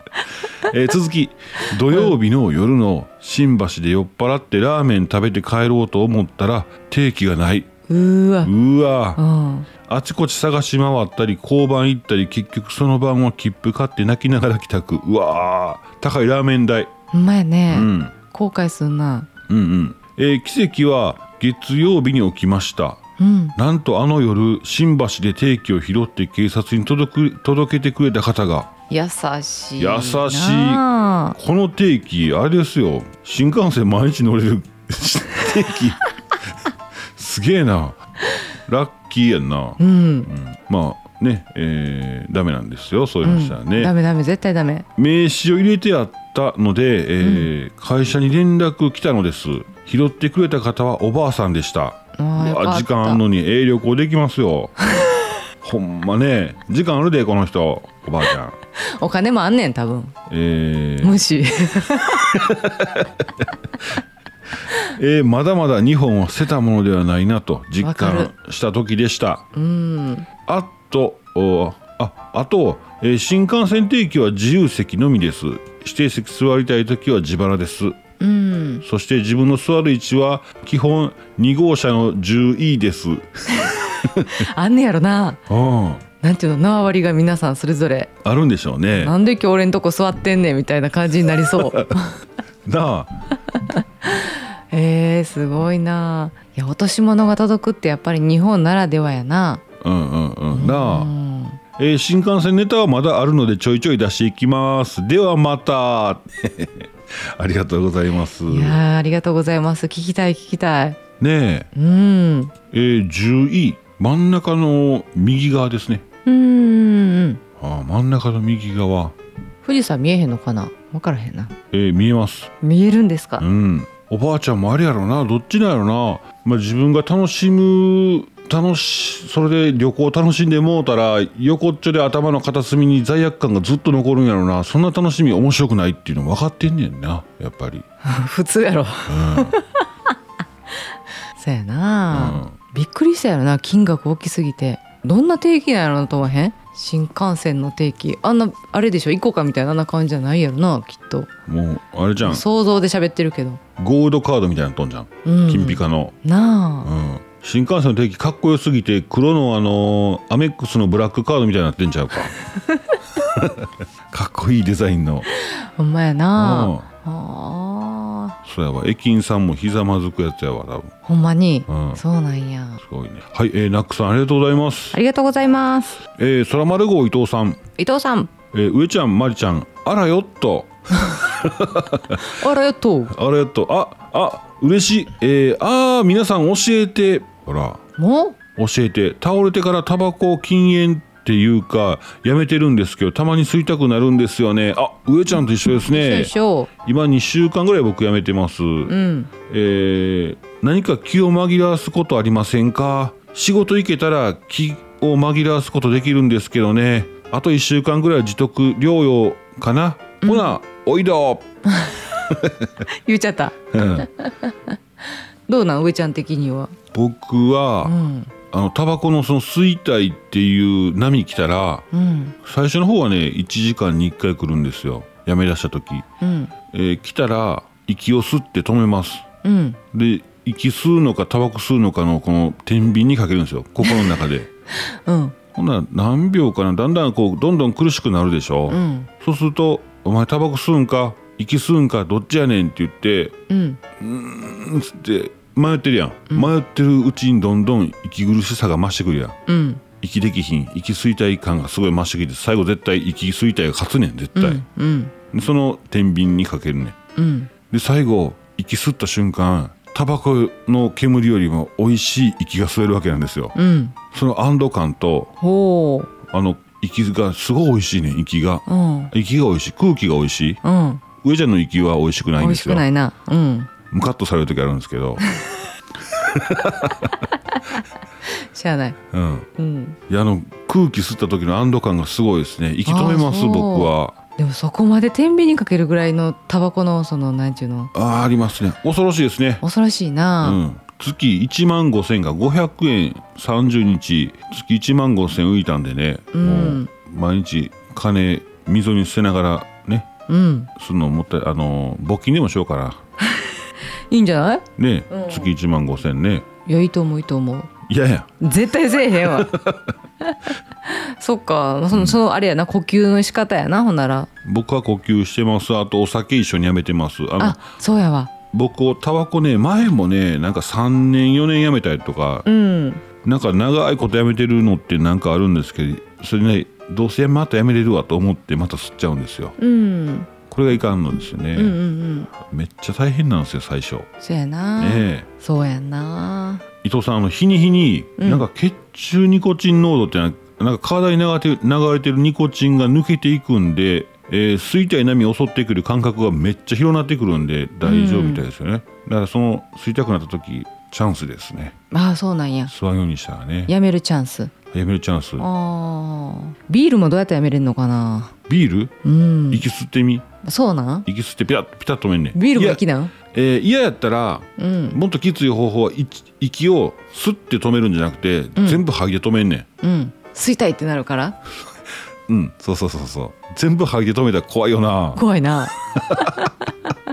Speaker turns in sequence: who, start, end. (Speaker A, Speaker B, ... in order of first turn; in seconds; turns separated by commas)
Speaker A: 0.5-7.7, Speaker B: 7.9-8.5, Speaker A: 8.4-9.2, Speaker B: 9.2-9.7, Speaker A: 9.8-16.9, Speaker B: 17.1-19.3, Speaker A: 17.7-18.1, Speaker A: 19.5-23.0, Speaker B: 23.2-23.6, Speaker A: 23.6-28.7, Speaker B: 28.9-31.4, Speaker A: 29.8-36.0, Speaker A: 37.1-38.0, Speaker A: 38.7-43.9, Speaker B: 39.8-40.3, Speaker B: 43.2-44.9, Speaker A: 45.0-54.7, Speaker B: 47.2-47.5, Speaker B: 52.1-53.2, Speaker B: 54.9-55.2, Speaker A: 55.6-58.5, Speaker B: 58.8-60.1, Speaker A: 60.3-61.2, Speaker B: 61.0-62.4, Speaker A: 62.3-63.3, Speaker A: 64.8-69.5, Speaker B: 67.8-68.3, Speaker B: 69.5-70.3, Speaker A: 70.5-78.0, Speaker B: 78.2-78.8, Speaker A: 78.8-84.5, Speaker B: 83.6-85.4, Speaker A: 85.5-86.0, Speaker B: 86.2-88.1, Speaker A: 88.2-89.1, Speaker B: 89.0-92.2, Speaker A: 91.5-91.9, Speaker A: 92.6-93.1, Speaker B: 93.5-99.6, Speaker A: 99.8-101.1, Speaker B: 100.5-101.6, Speaker A: 101.8-108.8, Speaker B: 108.5-111.0, Speaker A: 111.2-111.7, Speaker B: 111.7-112.5, Speaker A: 112.7-116.0, Speaker B: 116.2-117.4, Speaker A: 117.6-119.1, Speaker B: 119.6-121.5, Speaker A: 121.7-122.5, Speaker B: 122.6-123.5, Speaker A: 123.4-137.8, Speaker B: 138.0-139.8, Speaker A: 139.1-139.6, Speaker B: 141.3-151.3, Speaker A: 142.1-142.5, Speaker A: 151.5-152.4, Speaker B: 152.2-153.6, Speaker A: 153.8-156.1, Speaker B: 155.2-156.9, Speaker A: 156.8-162.3, Speaker B: 162.7-163.0, Speaker A: 163.2-165.3, Speaker B: 165.3-168.3, Speaker A: 166.3-166.8, Speaker A: 168.4-170.9, Speaker B: 171.0-172.8, Speaker A: 171.7-172.0, Speaker A: 172.8-175.0, Speaker B: 174.9-176.0, Speaker A: 176.2-177.6, Speaker B: 177.8-178.3, Speaker A: 178.5-182.3, Speaker B: 182.2-183.1, Speaker A: 183.1-187.8, Speaker B: 188.0-188.4, Speaker A: 188.6-196.3, Speaker B: 195.8-196.7, Speaker A: 196.8-198.9, Speaker B: 198.9-199.3, Speaker A: 199.5-211.4, Speaker B: 210.2-210.5, Speaker B: 211.7-212.1, Speaker A: 212.3-212.7, Speaker B: 213.0-214.7, Speaker A: 213.7-214.1, Speaker B: 215.5-216.7, Speaker A: 216.9-217.9, Speaker B: 217.8-218.3, Speaker A: 218.5-221.8, Speaker B: 221.9-222.3, Speaker A: 222.4-226.1, Speaker B: 226.2-226.5, Speaker A: 226.7-229.2, Speaker B: 229.4-229.8, Speaker A: 229.9-234.5, Speaker B: 234.8-235.3, Speaker A: 235.5-243.3, Speaker B: 238.7-239.1, Speaker B: 243.5-243.8, Speaker A: 244.0-249.4, Speaker B: 249.5-249.8, Speaker A: 250.0-254.6, Speaker B: 254.3-255.1, Speaker A: 255.3-256.9, Speaker B: 257.1-257.5, Speaker A: 257.7-263.5, Speaker B: 263.5-263.9, Speaker A: 264.1-265.3, Speaker B: 265.4-266.1, Speaker A: 266.2-270.6, Speaker B: 268.7-269.1, Speaker B: 270.6-271.0, Speaker A: 271.2-272.8, Speaker B: 272.4-273.7, Speaker A: 273.9-275.2, Speaker B: 275.2-275.5, Speaker A: 276.1-277.2, Speaker B: 277.5-279.0, Speaker A: 279.1-279.5, Speaker B: 279.6-280.0, Speaker A: 280.1-284.1, Speaker B: 282.9-287.9, Speaker A: 287.9-289.6, Speaker B: 289.6-290.6, Speaker A: 290.4-300.1, Speaker B: 296.3-296.9, Speaker B: 300.3-300.7, Speaker A: 300.8-303.0, Speaker B: 304.1-305.5, Speaker A: 304.8-306.4, Speaker B: 306.6-307.7, Speaker A: 307.9-308.4, Speaker B: 308.4-309.5, Speaker A: 309.2-309.9, Speaker B: 310.2-314.3, Speaker A: 311.9-312.2, Speaker A: 314.4-317.6, Speaker B: 317.4-318.3, Speaker A: 318.5-322.4, Speaker B: 322.4-323.0, Speaker A: 323.2-329.6, Speaker B: 329.6-330.3, Speaker A: 330.5-331.8, Speaker B: 331.6-332.3, Speaker A: 332.3-334.1, Speaker B: 334.2-336.6, Speaker A: 334.8-335.2, Speaker A: 336.8-351.7, Speaker B: 338.2-338.4, Speaker B: 347.8-348.4, Speaker B: 351.9-352.7, Speaker A: 352.7-353.7, Speaker B: 353.7-354.5, Speaker A: 354.7-355.4, Speaker B: 355.4-358.3, Speaker A: 358.5-358.9, Speaker B: 359.0-359.6, Speaker A: 359.5-360.3, Speaker B: 360.4-361.1, Speaker A: 361.1-369.7, Speaker B: 362.3-363.1, Speaker B: 364.6-365.0, Speaker B: 368.6-368.8, Speaker B: 369.8-371.4, Speaker A: 372.3-375.2, Speaker B: 375.1-376.5, Speaker A: 375.8-376.5